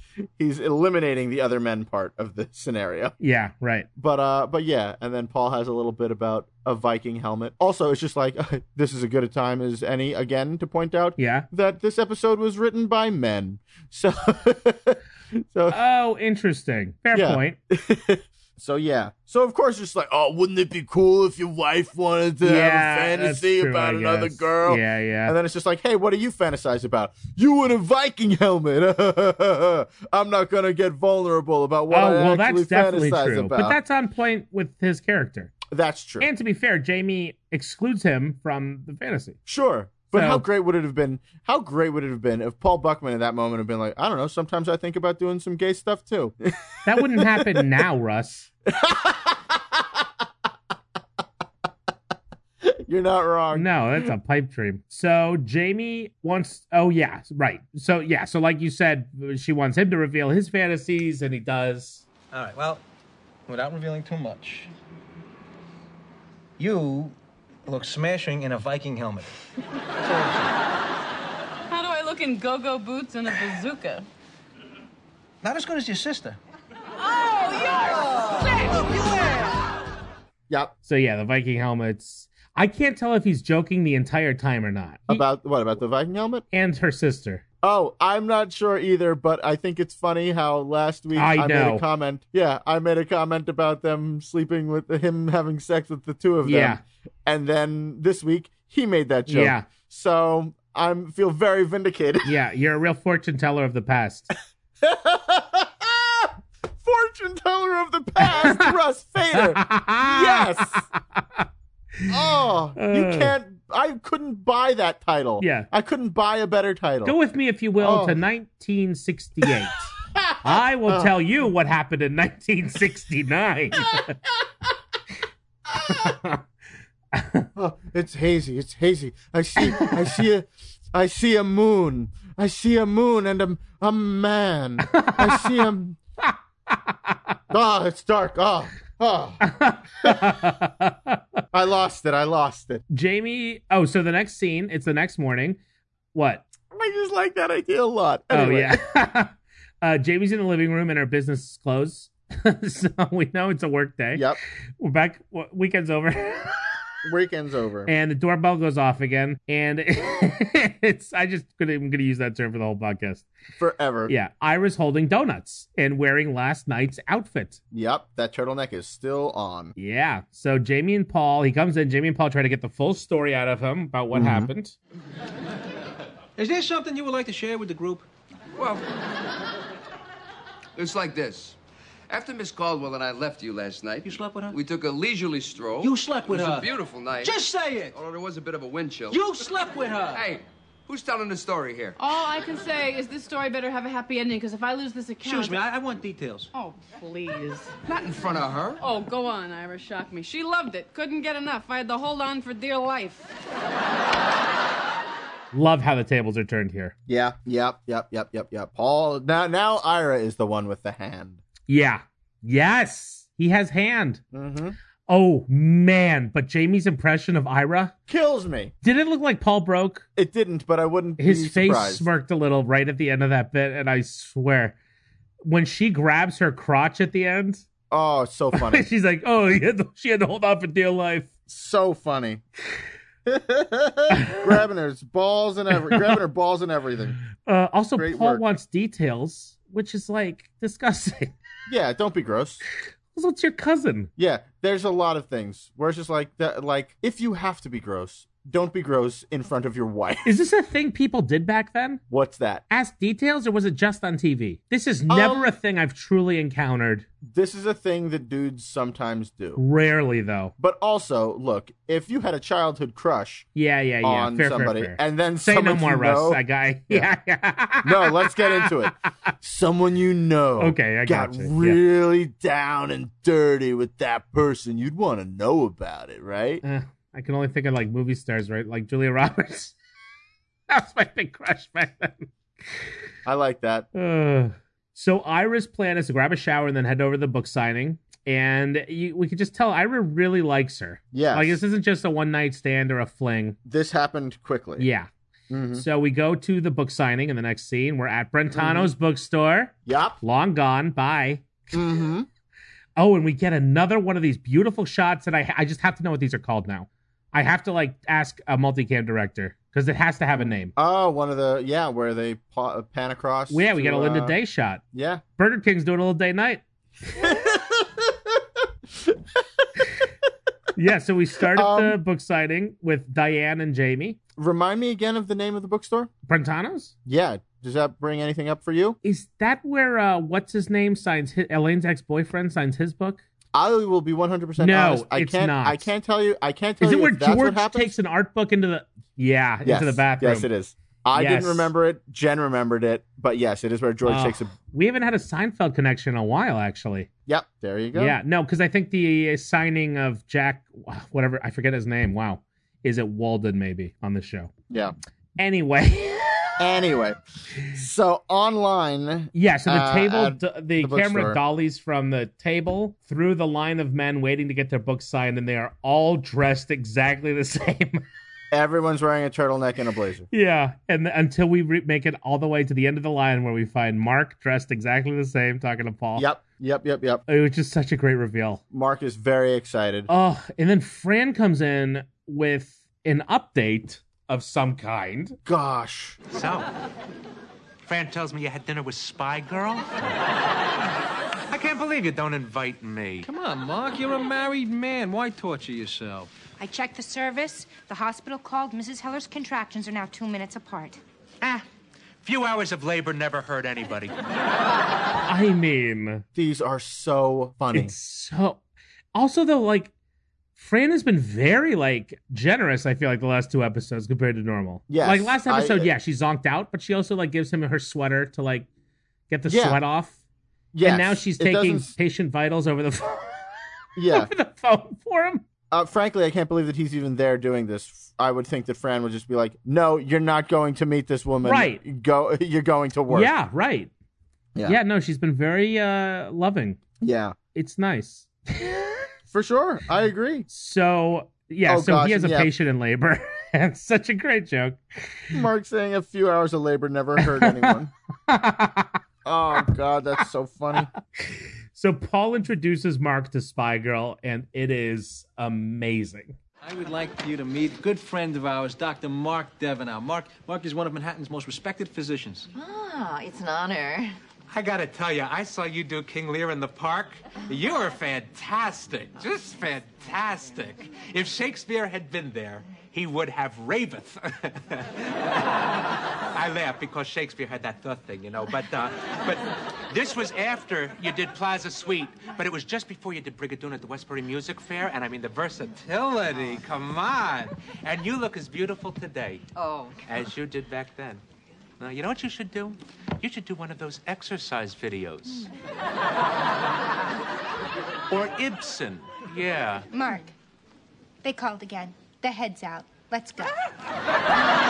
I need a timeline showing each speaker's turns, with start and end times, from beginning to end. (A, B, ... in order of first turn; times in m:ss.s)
0:00.4-0:03.2 A
0:03.2-0:03.9 B
0:04.0-0:15.8 A
0:11.2-0:11.5 B
0:15.7-0:17.6 B
0:17.1-0:33.8 A
0:22.4-0:25.4 B
0:31.9-0:35.6 B
0:35.7-0:36.3 A
0:36.2-0:39.4 B
0:39.5-0:47.6 A
0:40.1-0:40.5 B
0:46.9-0:48.5 B
0:48.7-0:49.8 A
0:52.6-0:53.7 A
0:53.5-1:02.0 B
1:02.3-1:02.8 C
1:03.5-1:04.7 C
1:06.6-1:07.2 C
1:07.7-1:09.3 C
1:10.0-1:10.5 C
1:11.7-1:14.1 D
1:15.4-1:16.4 C
1:17.0-1:18.8 D
1:18.7-1:19.5 C
1:20.8-1:25.2 B
1:25.1-1:26.4 A
1:26.5-1:27.4 B
1:27.6-1:42.3 A
1:31.2-1:31.8 B
1:36.4-1:36.8 B
1:39.3-1:39.7 B
1:42.2-1:44.3 B
1:44.8-1:50.9 A
1:48.2-1:48.8 B
1:49.3-1:51.5 B
1:52.0-1:53.3 B
1:52.1-1:57.2 A
1:55.4-1:55.7 B
1:57.0-1:59.9 B
1:57.8-1:58.2 A
2:00.2-2:01.1 A
2:00.4-2:04.2 B
2:05.7-2:06.2 A
2:05.9-2:06.4 B
2:07.1-2:07.5 B
2:07.6-2:16.0 A
2:09.6-2:10.2 B
2:14.9-2:15.7 B
2:16.9-2:17.3 B
2:17.5-2:19.4 A
2:19.4-2:21.2 B
2:20.0-2:20.4 A
2:21.5-2:22.8 A
2:22.9-2:25.6 B
2:26.1-2:26.4 B
2:26.7-2:28.8 A
2:28.3-2:34.2 B
2:34.2-2:34.4 A
2:34.8-2:36.7 B
2:37.0-2:37.9 A
2:37.9-2:43.3 B
2:43.6-2:44.1 A
2:44.1-2:47.6 B
2:47.7-2:49.8 A
2:49.8-2:54.8 B
2:54.1-2:54.5 A
2:56.4-2:58.1 C
2:58.6-2:58.9 E
3:00.8-3:01.6 E
3:02.1-3:07.4 E
3:04.0-3:04.6 C
3:05.8-3:06.7 C
3:07.2-3:08.0 C
3:07.9-3:09.2 E
3:09.1-3:10.2 C
3:10.1-3:12.0 E
3:12.0-3:15.6 D
3:15.2-3:16.5 C
3:16.5-3:17.7 D
3:17.8-3:18.8 E
3:18.8-3:23.3 D
3:25.5-3:26.9 B
3:27.1-3:31.4 A
3:31.7-3:34.2 B
3:34.3-3:34.8 A
3:35.1-3:38.0 B
3:38.1-3:38.7 A
3:38.8-3:40.1 B
3:40.2-3:42.1 A
3:41.2-3:44.8 B
3:45.4-3:47.6 B
3:47.9-3:48.9 A
3:48.5-3:51.3 B
3:51.5-3:52.4 A
3:53.3-3:57.2 A
3:54.2-3:54.6 B
3:55.9-3:56.2 B
3:57.4-4:01.3 B
3:58.0-3:58.4 A
4:01.7-4:02.6 A
4:03.1-4:04.1 B
4:04.2-4:10.3 A
4:10.2-4:12.0 B
4:12.1-4:12.6 A
4:12.7-4:17.1 B
4:15.1-4:15.5 A
4:17.2-4:19.6 A
4:19.6-4:20.5 B
4:20.6-4:23.5 A
4:23.6-4:28.9 B
4:24.0-4:27.1 A
4:27.8-4:36.6 A
4:30.6-4:31.8 B
4:36.6-4:39.8 B
4:40.7-4:42.8 B
4:43.2-4:43.9 A
4:43.9-4:53.6 B
4:51.1-4:51.6 A
4:53.6-4:54.9 A
4:54.8-4:55.1 B
4:55.5-4:55.8 A
4:55.7-5:01.5 B
4:58.5-4:58.9 A
4:59.9-5:00.2 A
5:01.7-5:02.3 A
5:03.0-5:10.7 B
5:10.4-5:14.4 A
5:13.5-5:14.8 B
5:14.9-5:15.2 A
5:15.4-5:16.6 B
5:17.2-5:18.1 A
5:20.8-5:24.2 B
5:21.5-5:22.0 A
5:24.4-5:26.1 A
5:26.3-5:26.9 B
5:27.1-5:29.0 A
5:29.0-5:33.2 B
5:33.5-5:37.9 A
5:34.6-5:35.9 B
5:36.8-5:40.5 B
5:39.6-5:44.5 A
5:41.2-5:41.7 B
5:44.0-5:47.1 B
5:47.3-5:48.2 A
5:47.9-5:54.5 B
5:54.7-5:55.0 A
5:55.4-5:56.7 B
5:56.6-6:01.4 A
5:59.3-6:08.0 B
6:08.5-6:10.3 A
6:10.3-6:16.3 B
6:16.2-6:17.2 A
6:17.3-6:18.6 B
6:18.7-6:20.1 A
6:20.1-6:25.4 B
6:25.5-6:26.2 A
6:26.3-6:26.7 F
6:27.8-6:30.0 F
6:31.5-6:33.3 F
6:33.2-6:36.3 C
6:36.6-6:41.0 G
6:42.2-6:44.2 F
6:45.2-6:46.2 B
6:46.4-6:47.9 A
6:47.7-6:48.6 B
6:49.1-6:49.9 B
6:50.6-6:58.7 B
6:54.9-6:55.9 A
6:59.3-7:00.2 B
6:59.5-6:59.8 A
7:00.7-7:01.9 A
7:00.8-7:03.5 B
7:04.0-7:04.3 A
7:04.0-7:05.4 B
7:05.7-7:13.3 A
7:11.4-7:11.8 B
7:13.1-7:13.9 B
7:14.6-7:16.8 B
7:17.0-7:17.4 A
7:17.5-7:19.0 B
7:19.3-7:20.5 A
7:20.5-7:25.4 B
7:21.7-7:22.5 A
7:25.3-7:27.9 A
7:27.2-7:27.7 B
7:28.3-7:29.0 B
7:29.2-7:30.9 A
7:30.7-7:36.4 B
7:36.6-7:42.5 C
7:42.5-7:44.2 H
7:44.5-7:55.6 F
7:56.3-8:09.5 F
8:09.6-8:10.0 H
8:10.1-8:11.2 F
8:11.8-8:15.5 F
8:18.1-8:19.9 F
8:19.9-8:20.3 G
8:21.2-8:23.6 G